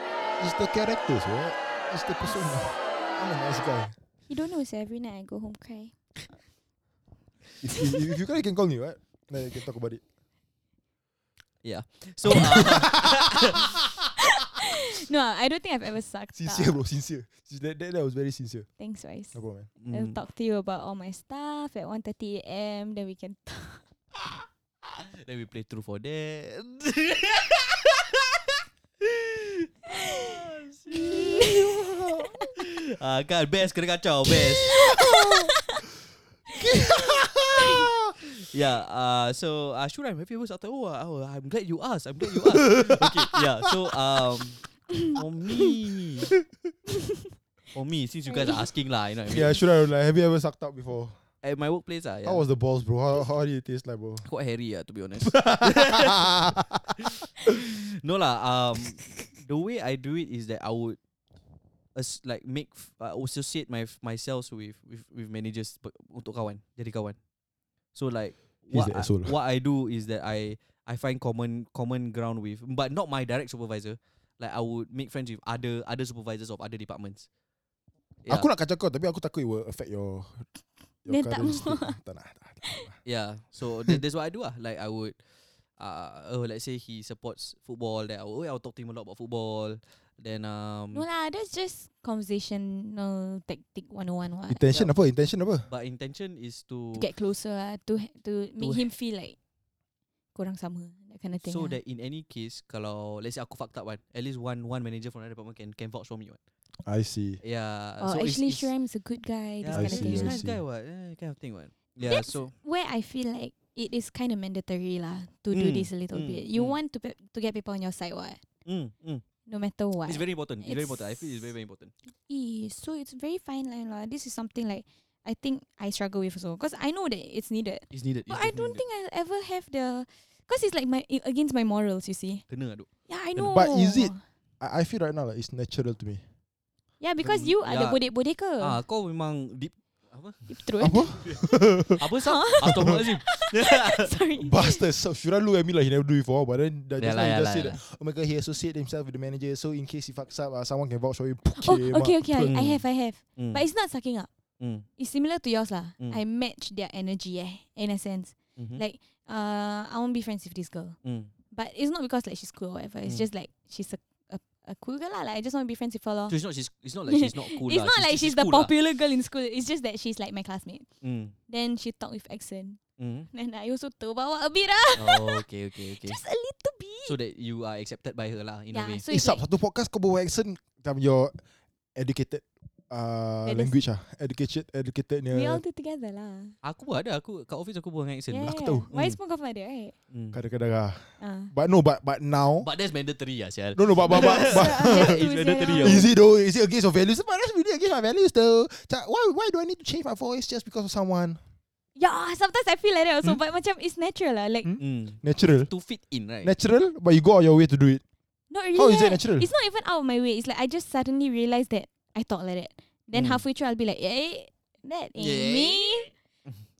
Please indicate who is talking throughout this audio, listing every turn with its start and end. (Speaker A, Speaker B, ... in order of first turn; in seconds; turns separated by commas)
Speaker A: 0.4-4.0, Speaker B: 4.3-5.9, Speaker A: 7.6-10.0, Speaker C: 11.6-13.7, Speaker A: 12.5-12.8, Speaker A: 13.4-13.7, Speaker B: 14.4-16.8, Speaker A: 16.3-18.7, Speaker B: 18.8-23.8, Speaker A: 19.3-19.7, Speaker C: 19.8-20.2, Speaker C: 25.1-28.4, Speaker C: 29.0-29.7, Speaker B: 30.0-30.3, Speaker C: 30.3-31.6, Speaker B: 30.9-31.7, Speaker A: 31.0-32.3, Speaker C: 32.5-34.9, Speaker B: 34.7-35.8, Speaker B: 36.5-36.9, Speaker A: 36.6-38.1, Speaker C: 38.2-46.3, Speaker A: 42.2-43.4, Speaker C: 47.7-49.6, Speaker B: 48.3-48.6, Speaker A: 49.2-51.1, Speaker C: 51.4-52.4, Speaker A: 52.2-54.3, Speaker C: 54.2-61.0, Speaker A: 55.2-56.9, Speaker C: 61.9-67.2, Speaker C: 67.9-77.2, Speaker A: 68.7-69.3, Speaker A: 78.3-80.5, Speaker A: 81.0-83.0, Speaker B: 81.1-82.0, Speaker C: 83.0-85.2, Speaker C: 85.8-91.0, Speaker B: 90.9-94.7, Speaker A: 94.5-95.7, Speaker C: 95.7-97.1, Speaker B: 96.9-99.3, Speaker C: 98.6-98.9, Speaker B: 100.3-101.8, Speaker C: 101.4-106.4, Speaker A: 106.8-107.4, Speaker C: 107.4-108.7, Speaker B: 108.0-110.4, Speaker C: 109.6-112.5, Speaker A: 109.7-110.6, Speaker B: 112.0-118.4, Speaker C: 115.5-116.8, Speaker C: 118.6-119.2, Speaker B: 119.5-121.5, Speaker C: 120.0-121.9, Speaker B: 122.1-132.4, Speaker C: 127.9-128.8, Speaker C: 132.5-132.9, Speaker B: 133.1-134.2, Speaker A: 133.3-136.2, Speaker B: 137.0-138.8, Speaker C: 137.2-138.0, Speaker C: 138.6-141.4, Speaker B: 140.5-141.6, Speaker A: 140.8-142.0, Speaker C: 142.0-144.1, Speaker B: 142.1-144.8, Speaker A: 142.7-143.0, Speaker A: 144.4-152.6, Speaker C: 147.0-147.8, Speaker B: 151.6-154.3, Speaker C: 152.4-152.8, Speaker C: 153.3-153.6, Speaker C: 154.6-154.8, Speaker B: 155.0-161.0, Speaker C: 158.6-158.8, Speaker C: 161.0-161.3, Speaker B: 161.5-166.3, Speaker C: 166.3-168.7, Speaker B: 167.1-170.9, Speaker C: 171.0-171.3, Speaker B: 171.5-172.8, Speaker C: 173.0-173.3, Speaker B: 173.3-177.2, Speaker C: 174.9-176.2, Speaker C: 177.0-179.1, Speaker B: 178.7-179.4, Speaker A: 179.1-181.4, Speaker A: 181.9-185.6, Speaker B: 183.4-183.8, Speaker B: 185.3-186.5, Speaker C: 186.6-189.2, Speaker B: 188.3-189.9, Speaker A: 188.4-188.9, Speaker C: 190.1-190.4, Speaker A: 190.3-192.7, Speaker B: 191.2-191.5, Speaker C: 192.6-196.1, Speaker A: 193.7-195.2, Speaker B: 194.1-196.1, Speaker A: 195.8-201.4, Speaker B: 201.9-204.7, Speaker A: 204.6-205.7, Speaker C: 204.8-206.5, Speaker A: 206.4-208.0, Speaker B: 208.5-216.1, Speaker A: 208.8-209.5, Speaker C: 213.1-213.4, Speaker C: 215.2-216.7